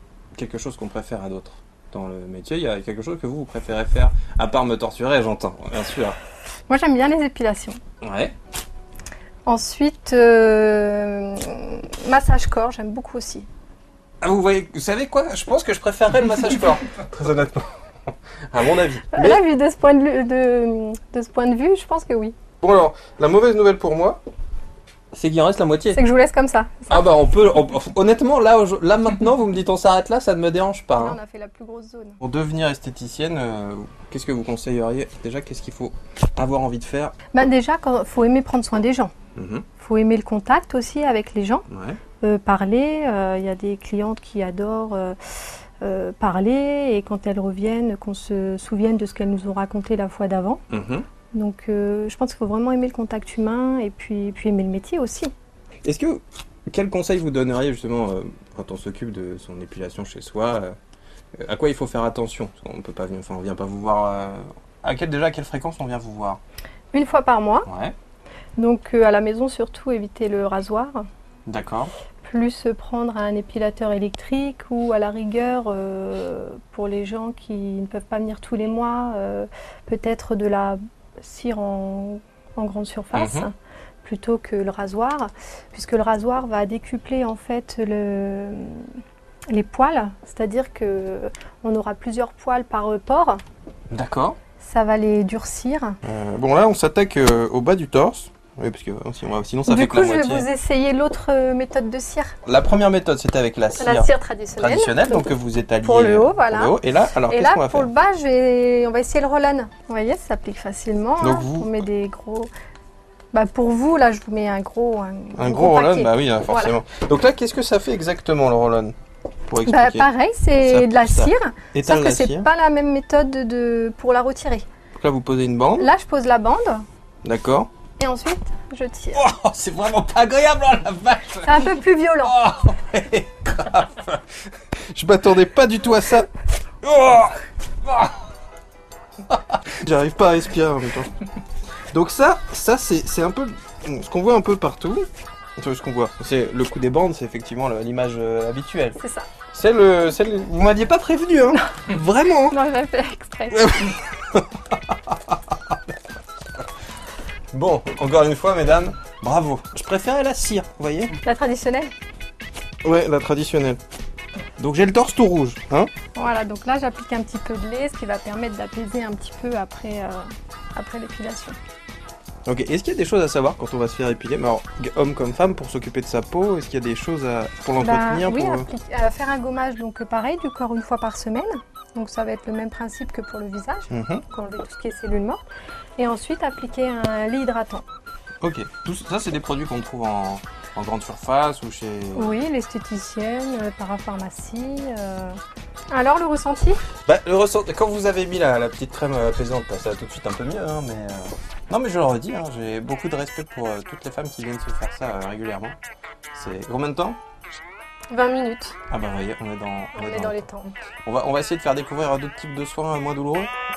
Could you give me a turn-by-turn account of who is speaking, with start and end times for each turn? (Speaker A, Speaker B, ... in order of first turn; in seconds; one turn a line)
Speaker A: 0.3-6.2
Speaker B: 6.7-7.8
Speaker A: 8.0-8.3
Speaker B: 9.4-13.5
Speaker A: 14.2-17.6
Speaker A: 18.5-19.4
Speaker B: 19.1-22.3
Speaker A: 22.6-24.2
Speaker A: 25.1-26.0
Speaker B: 25.9-27.0
Speaker A: 26.9-31.2
Speaker B: 30.9-32.2
Speaker A: 32.2-37.1
Speaker B: 37.3-39.1
Speaker A: 39.4-39.6
Speaker B: 39.8-41.7
Speaker A: 41.7-42.0
Speaker B: 42.2-50.6
Speaker A: 50.7-51.0
Speaker B: 51.3-55.3
Speaker A: 55.8-60.8
Speaker A: 61.4-66.4
Speaker B: 66.9-67.7
Speaker A: 67.7-67.9
Speaker B: 68.6-71.0
Speaker A: 71.5-71.9
Speaker B: 72.2-88.9
Speaker A: 83.1-83.5
Speaker B: 89.5-93.4
Speaker A: 93.9-94.4
Speaker B: 94.6-96.0
Speaker A: 96.0-100.5
Speaker B: 99.7-102.3
Speaker A: 102.5-107.9
Speaker B: 103.8-112.5
Speaker A: 111.2-111.7
Speaker B: 113.3-116.7
Speaker A: 115.3-118.9
Speaker A: 119.5-120.1
Speaker B: 119.7-124.7
Speaker A: 120.6-122.5
Speaker A: 125.0-125.9
Speaker B: 125.8-126.8
Speaker A: 127.2-127.7
Speaker B: 128.0-129.2
Speaker A: 129.1-134.2
Speaker B: 131.4-132.3
Speaker A: 134.9-136.3
Speaker A: 136.8-138.1
Speaker A: 139.3-141.1
Speaker A: 141.9-145.1
Speaker A: 145.6-149.0
Speaker B: 149.0-149.3
Speaker A: 149.5-152.6
Speaker B: 152.5-153.8
Speaker A: 153.5-155.7
Speaker A: 157.5-161.2
Speaker B: 161.2-161.9
Speaker A: 162.8-163.8
Speaker A: 164.6-165.9
Speaker B: 166.1-171.6
Speaker A: 172.4-178.7
Speaker B: 177.8-185.4
Speaker A: 183.9-184.2
Speaker B: 186.0-187.8
Speaker A: 188.4-192.4
Speaker B: 192.1-196.8
Speaker A: 197.0-205.8
Speaker A: 206.3-207.2
Speaker B: 208.1-208.8
Speaker A: 208.9-210.5
Speaker B: 209.9-210.7
Speaker A: 211.0-213.5